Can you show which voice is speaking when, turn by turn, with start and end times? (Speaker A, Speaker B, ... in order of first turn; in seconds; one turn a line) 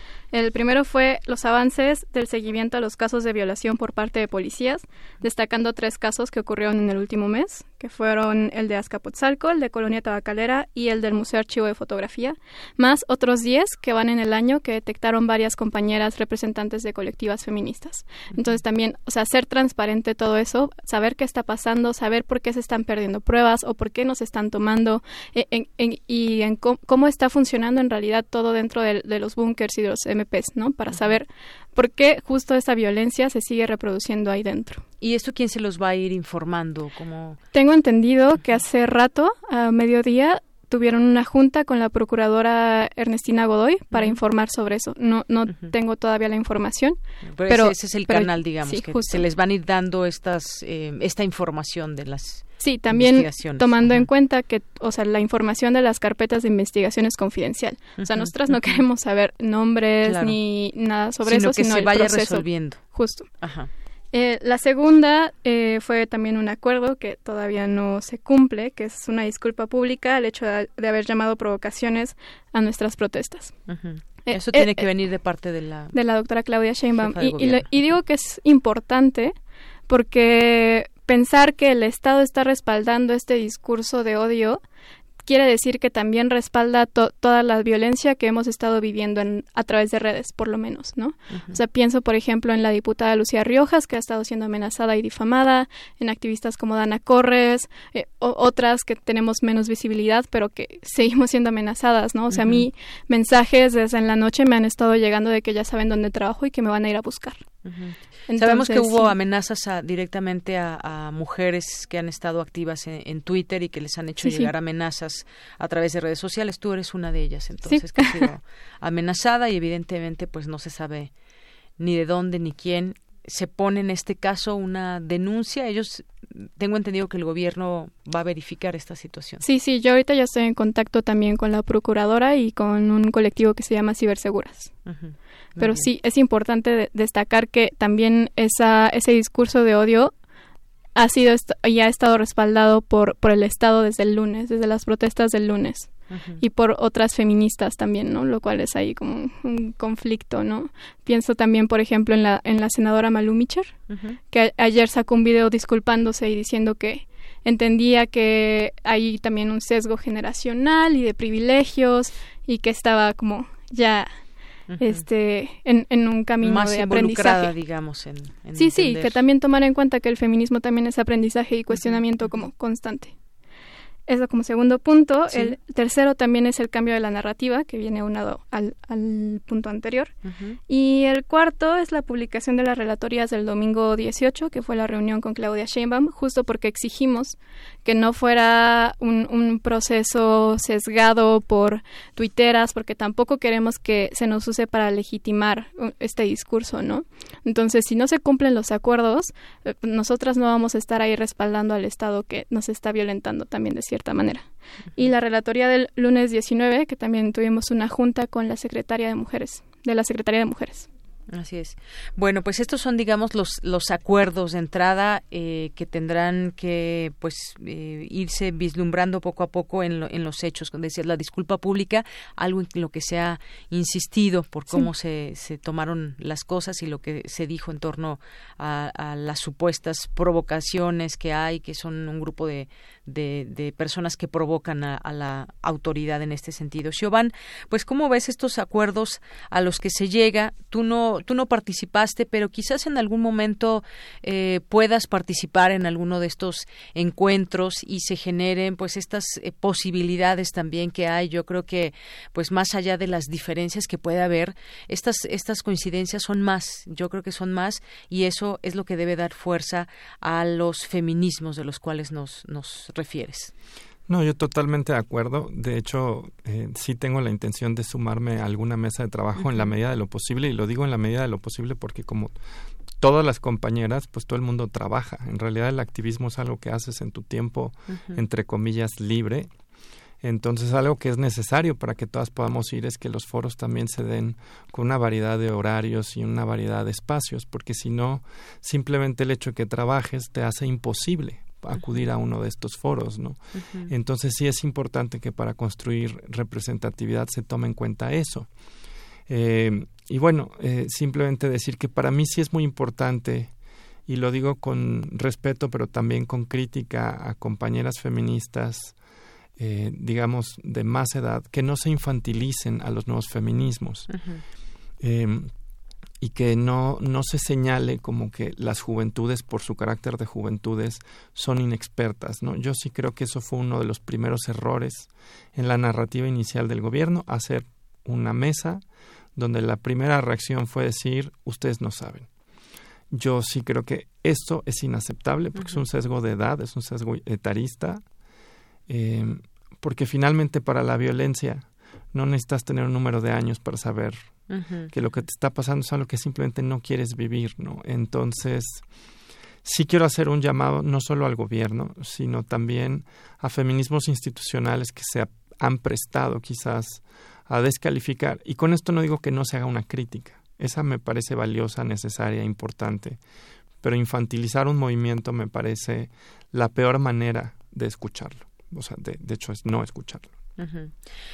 Speaker A: 0.3-34.8
Speaker B: 30.9-31.2
Speaker B: 35.0-37.4
Speaker A: 37.5-49.3
Speaker B: 43.9-44.2
Speaker B: 47.3-54.1
Speaker A: 52.6-63.3
Speaker B: 58.0-58.8
Speaker B: 60.0-60.4
Speaker B: 61.2-62.8
Speaker B: 63.4-63.7
Speaker A: 64.1-73.5
Speaker B: 73.7-75.9
Speaker A: 74.2-74.9
Speaker A: 75.9-79.4
Speaker B: 77.0-77.7
Speaker A: 79.9-84.6
Speaker A: 85.2-107.4
Speaker B: 91.3-91.6
Speaker B: 102.3-102.7
Speaker B: 107.7-121.1
Speaker A: 108.3-109.2
Speaker A: 114.2-114.5
Speaker A: 117.7-118.3
Speaker B: 121.8-129.4
Speaker A: 129.4-134.7
Speaker B: 134.9-135.9
Speaker A: 135.6-140.1
Speaker A: 140.9-153.7
Speaker B: 146.1-146.4
Speaker B: 153.9-154.2
Speaker A: 154.3-164.2
Speaker B: 164.7-165.0
Speaker A: 164.8-167.5
Speaker B: 166.4-169.2
Speaker A: 168.6-173.1
Speaker B: 171.7-172.4
Speaker A: 174.1-180.1
Speaker B: 180.2-180.6
Speaker A: 180.7-210.9
Speaker B: 211.3-263.5
Speaker C: 264.1-272.4
Speaker B: 269.4-269.7
Speaker C: 273.0-279.5
Speaker B: 277.9-278.2
Speaker C: 280.2-298.5
Speaker B: 291.7-292.0
Speaker B: 293.6-293.9
Speaker C: 299.3-303.5
Speaker C: 304.1-309.0
Speaker C: 309.6-314.1
Speaker B: 314.1-314.4
Speaker C: 315.0-315.5
Speaker C: 316.2-328.8
Speaker C: 329.4-332.3
Speaker C: 333.1-338.0
Speaker B: 335.6-335.8
Speaker C: 338.9-344.4
Speaker B: 344.5-344.9
Speaker C: 344.9-348.9
Speaker C: 349.6-363.2
Speaker C: 363.8-370.3
Speaker B: 370.6-370.9